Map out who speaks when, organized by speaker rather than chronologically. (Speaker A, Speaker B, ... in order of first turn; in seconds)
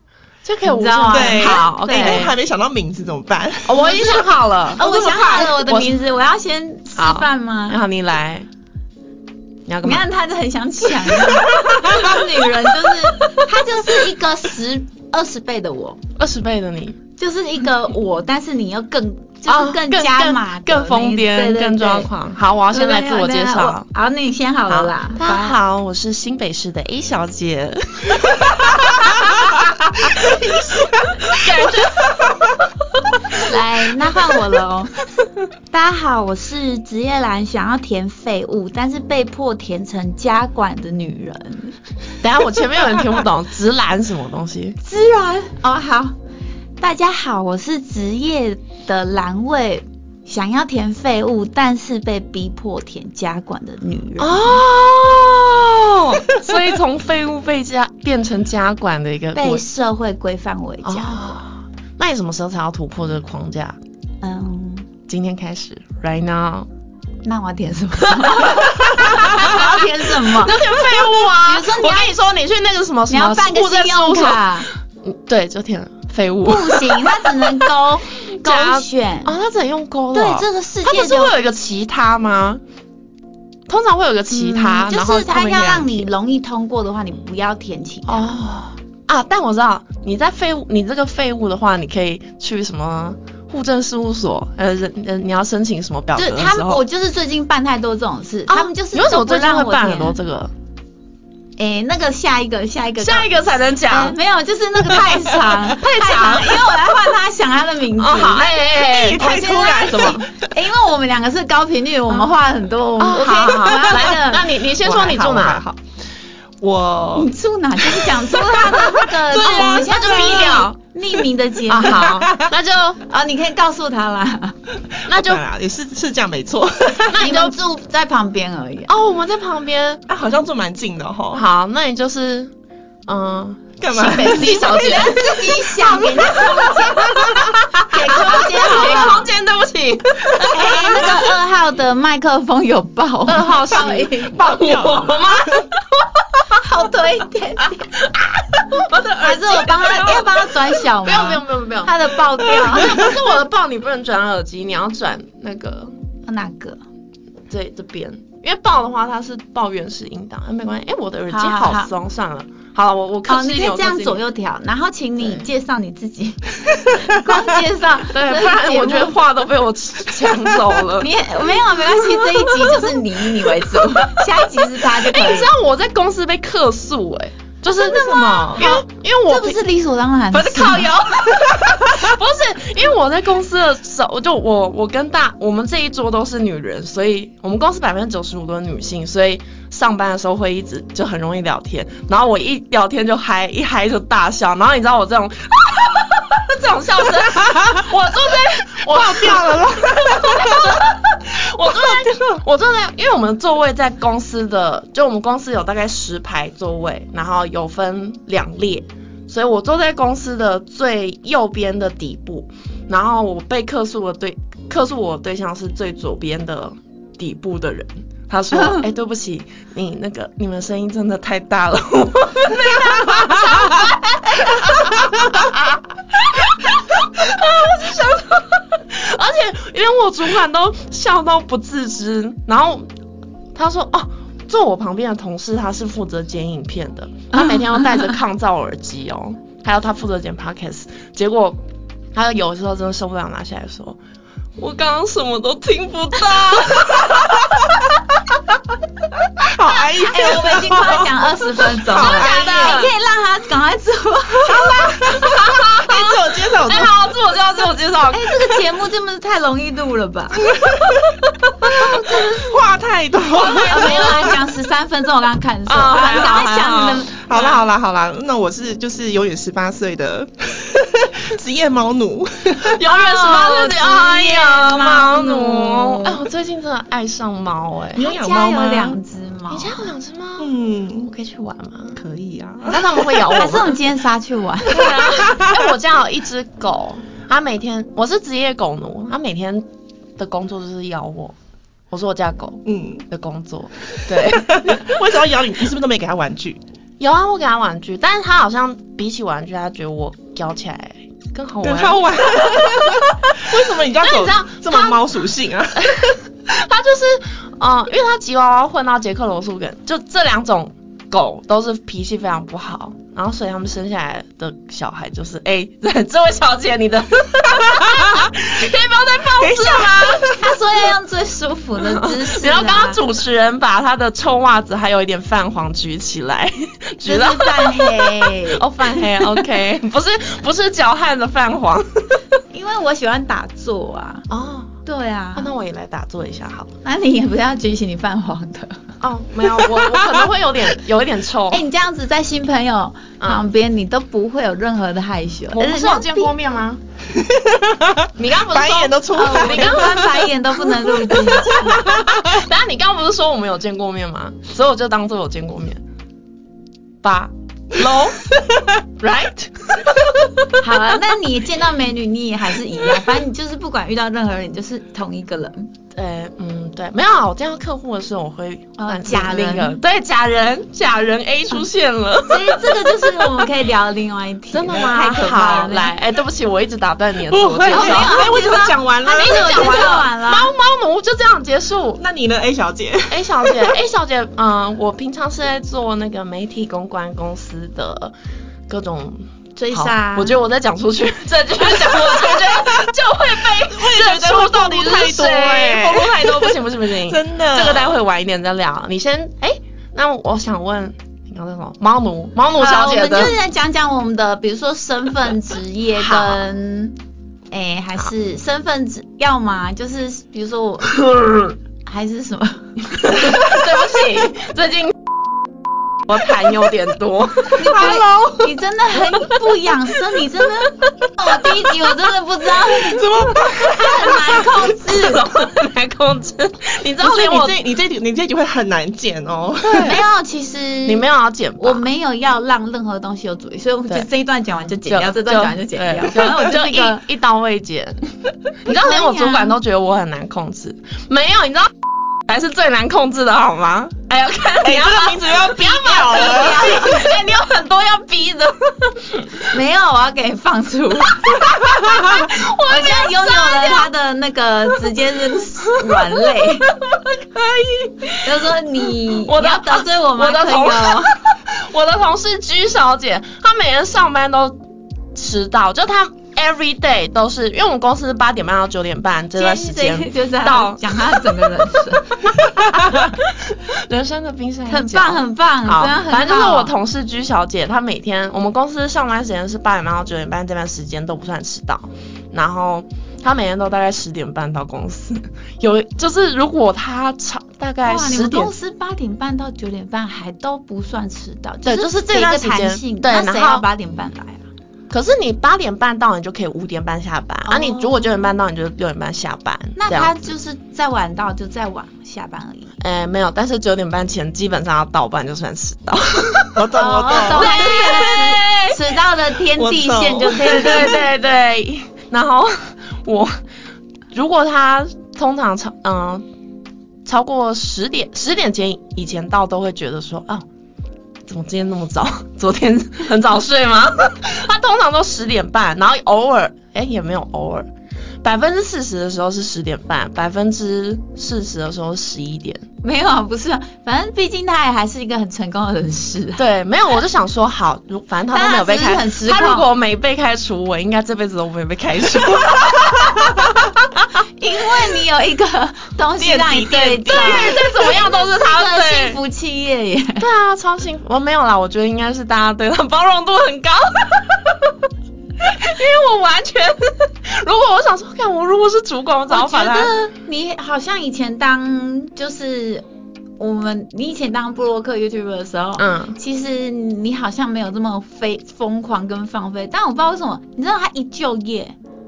Speaker A: 0.4-2.4, 3.6-6.0, 6.9-8.5, 9.7-10.0, 11.3-12.2, 16.2-17.0, 19.5-23.9, 24.7-29.7, 31.4-32.4, 42.2-44.8, 54.2-59.6, 60.8-63.8, 65.1-66.7, 68.3-77.7, 78.3-82.6, 83.7-86.1, 88.0-96.8, 98.5-100.5, 103.0-104.2, 105.6-106.8, 108.0-110.2, 112.1-112.3, 113.0-115.6, 118.7-120.8, 121.7-123.0, 125.0-125.4, 127.1-127.5, 128.9-130.0, 131.3-132.5, 133.1-141.3, 143.2-146.4, 148.0-155.9, 157.5-164.2, 168.1-171.1, 172.3-172.8, 173.6-174.0, 175.0-179.7, 180.3-232.9, 233.5-241.6, 242.1-244.0, 244.6-247.9, 251.9-252.9, 254.4-258.6, 263.4-264.4, 265.7-267.5, 272.6-278.0, 279.5-282.0, 282.7-283.8, 284.6-289.7, 290.2-291.3, 291.9-294.8, 297.0-303.3, 304.0-305.0, 305.8-320.4, 321.8-332.2, 334.3-334.8, 335.3-336.7, 339.0-341.6, 343.2-343.4, 345.5-346.8, 348.1-350.3, 351.5-355.8, 357.0-358.3, 359.0-360.4, 365.9-373.4, 374.5-378.4, 379.1-382.0, 383.1-388.1, 388.7-403.3, 406.0-406.5, 413.0-414.9, 416.1-418.0, 421.4-421.8, 423.0-427.6, 429.7-430.0, 430.8-431.8, 434.9-438.1, 438.6-449.5, 451.2-453.9, 455.8-458.6, 459.2-464.6, 465.1-471.2, 472.5-488.5, 491.6-493.6, 494.9-500.1, 502.8-508.8, 510.3-513.3, 514.1-516.2, 517.0-520.4, 521.2-527.7, 528.2-532.6, 536.4-543.6, 546.5-549.2, 550.2-554.8, 555.4-559.9, 565.8-566.2
Speaker B: 0.6-2.2, 3.7-7.8, 9.8-16.0, 17.2-22.1, 22.7-25.6, 33.3-34.9, 35.6-41.7, 44.8-46.1, 46.8-54.6, 59.3-61.4, 64.2-64.9, 67.2-70.6, 71.3-72.2, 73.1-74.7, 76.5-79.3, 80.1-81.3, 84.3-88.4, 96.2-100.2, 101.6-108.6, 109.2-114.5, 117.2-122.2, 123.0-124.6, 127.2-128.9, 133.9-139.3, 140.5-144.4, 146.6-147.9, 149.2-153.1, 156.2-156.8, 161.3-161.9, 163.3-169.2, 170.9-175.5, 177.6-180.9, 237.3-238.2, 249.8-254.7, 258.1-260.6, 263.6-267.5, 272.9-276.1, 277.9-279.9, 283.2-284.9, 320.4-323.0, 327.0-328.6, 332.5-334.2, 334.8-335.5, 336.8-338.7, 341.5-346.3, 349.1-351.9, 360.6-365.7, 368.8-369.8, 372.3-375.9, 377.7-380.5, 389.6-390.4, 402.6-406.9, 407.5-411.1, 411.8-413.3, 417.5-425.2, 429.8-431.1, 431.6-437.0, 438.6-439.6, 446.1-447.1, 449.5-451.6, 452.3-456.8, 458.2-461.1, 469.3-472.2, 474.7-476.7, 487.8-494.4, 497.4-498.1, 499.8-502.7, 506.8-511.0, 532.8-536.4, 538.3-539.7, 544.4-550.2, 559.3-562.9, 563.4-571.8
Speaker C: 1.1-3.8, 4.8-5.2, 30.1-32.3, 108.5-110.3, 114.7-115.8, 116.6-117.3, 117.8-120.6, 122.1-122.4, 125.1-127.2, 130.1-131.4, 133.8-134.7, 136.2-136.5, 143.7-145.2, 198.9-200.8, 201.6-202.4, 249.4-251.2, 251.8-252.9, 254.7-256.9, 260.5-264.4, 267.1-272.8, 277.9-279.0, 280.4-281.1, 281.9-283.2, 285.1-285.6, 292.7-293.0, 293.9-296.6, 301.6-305.9, 319.4-320.4, 347.2-350.3, 377.3-380.0, 382.0-383.7, 391.9-392.7, 393.6-398.0, 417.7-418.5, 422.9-423.8, 427.0-430.0, 444.6-446.8, 506.6-507.6, 509.5-510.8, 546.2-547.6